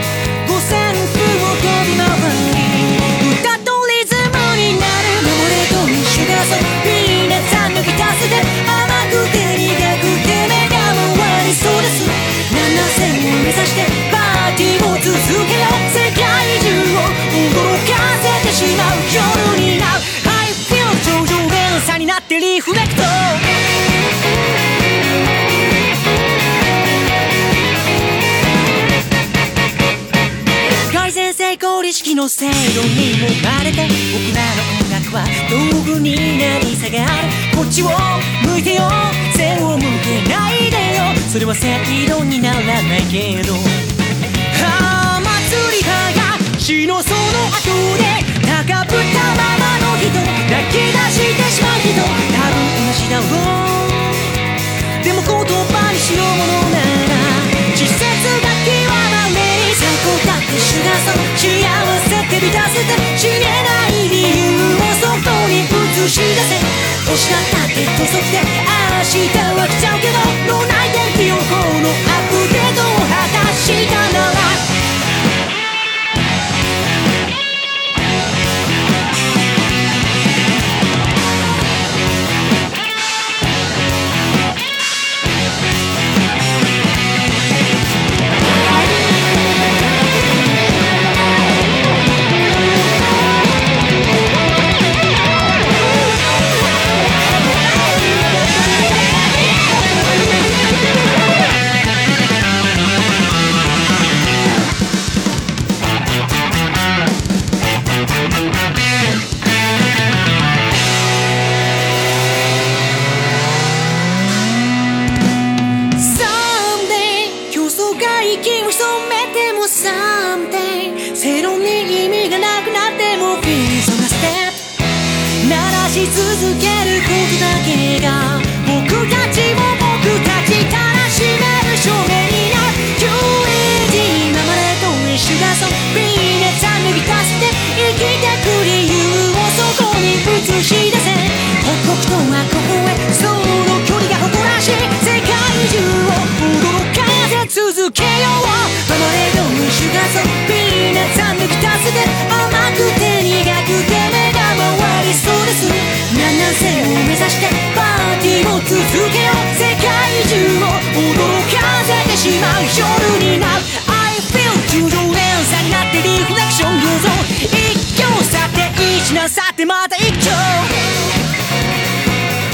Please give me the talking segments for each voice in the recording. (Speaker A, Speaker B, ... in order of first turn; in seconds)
Speaker A: 0.4-23.6, 30.6-43.8, 44.5-54.4, 55.0-74.7, 115.9-171.2